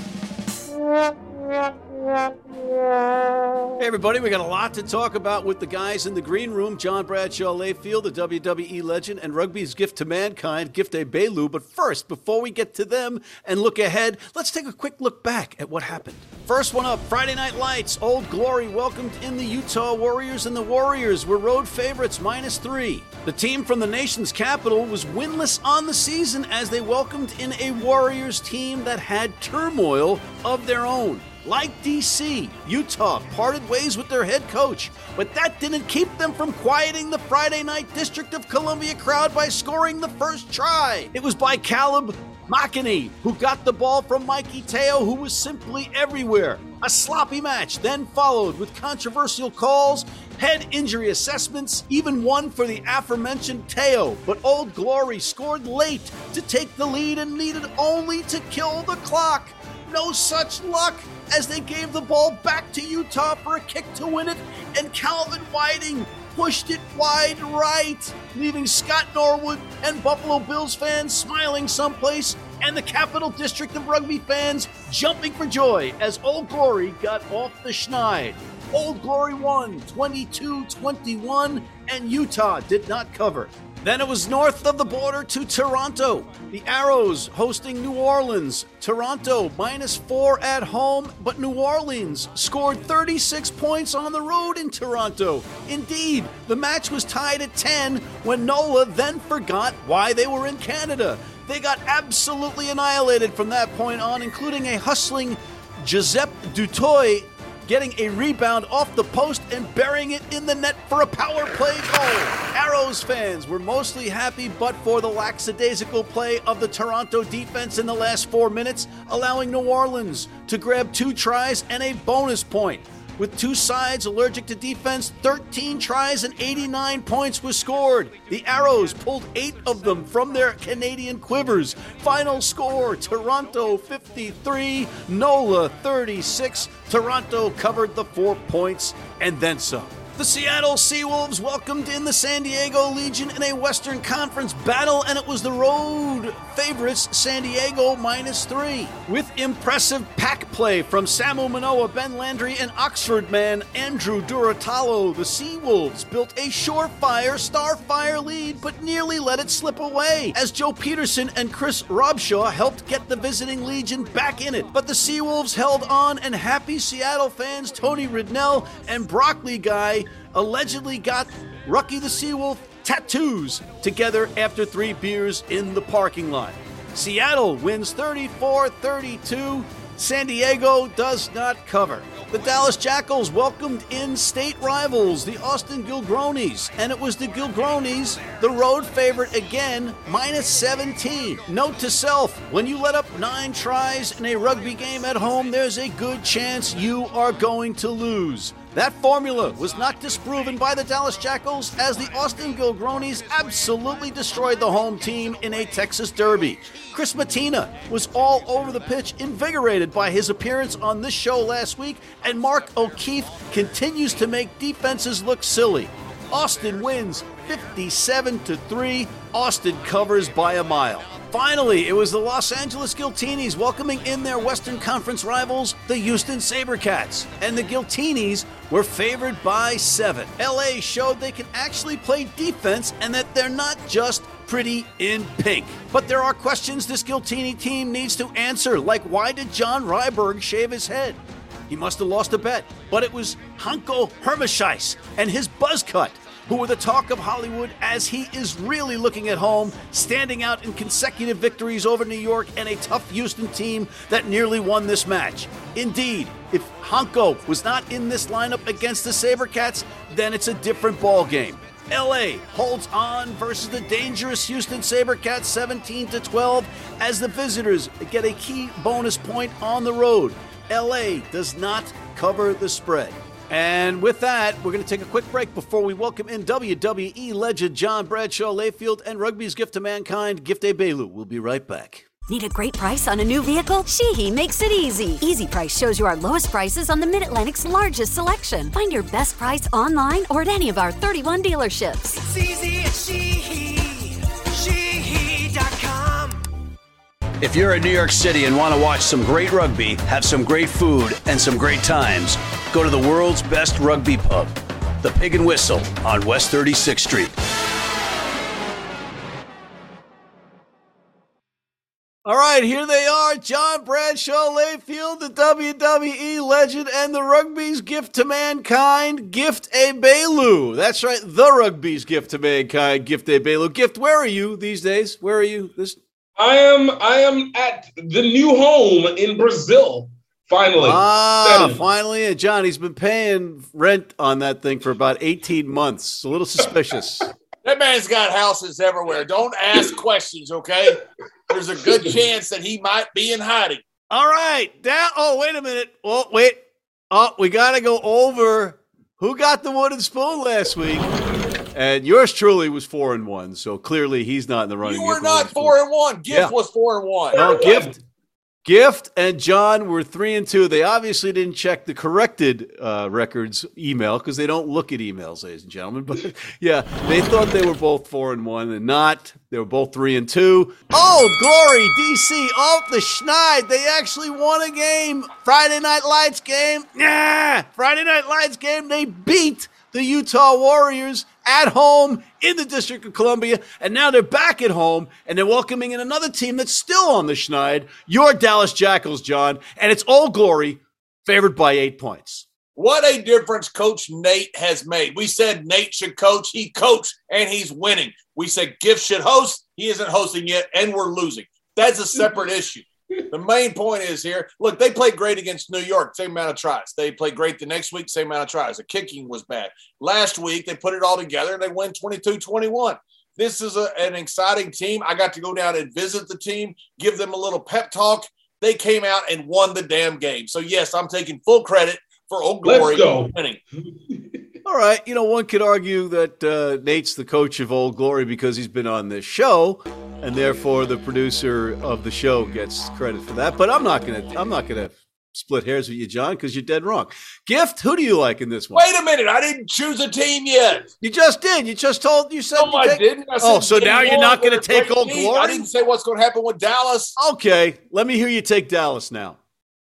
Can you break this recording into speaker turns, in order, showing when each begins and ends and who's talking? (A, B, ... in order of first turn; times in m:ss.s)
0:03.8-4:42.1 A
4:42.3-4:52.2 B
4:52.1-4:56.4 C
4:57.4-5:07.4 A
5:12.2-5:26.0 A
5:26.4-5:31.8 D
5:30.8-5:37.3 A
5:37.6-5:43.8 E
5:44.1-5:51.1 A
5:51.7-5:55.7 A
5:54.8-5:57.4 E
5:57.3-5:57.9 D
5:57.3-5:58.0 A
5:58.6-6:32.4 A
6:32.8-7:03.6 E
7:02.6-7:03.3 D
7:03.9-7:04.4 D
7:04.6-7:18.8 A
7:18.7-7:20.9 E
7:21.0-7:25.6 A
7:22.6-7:27.1 E
7:27.2-7:29.4 A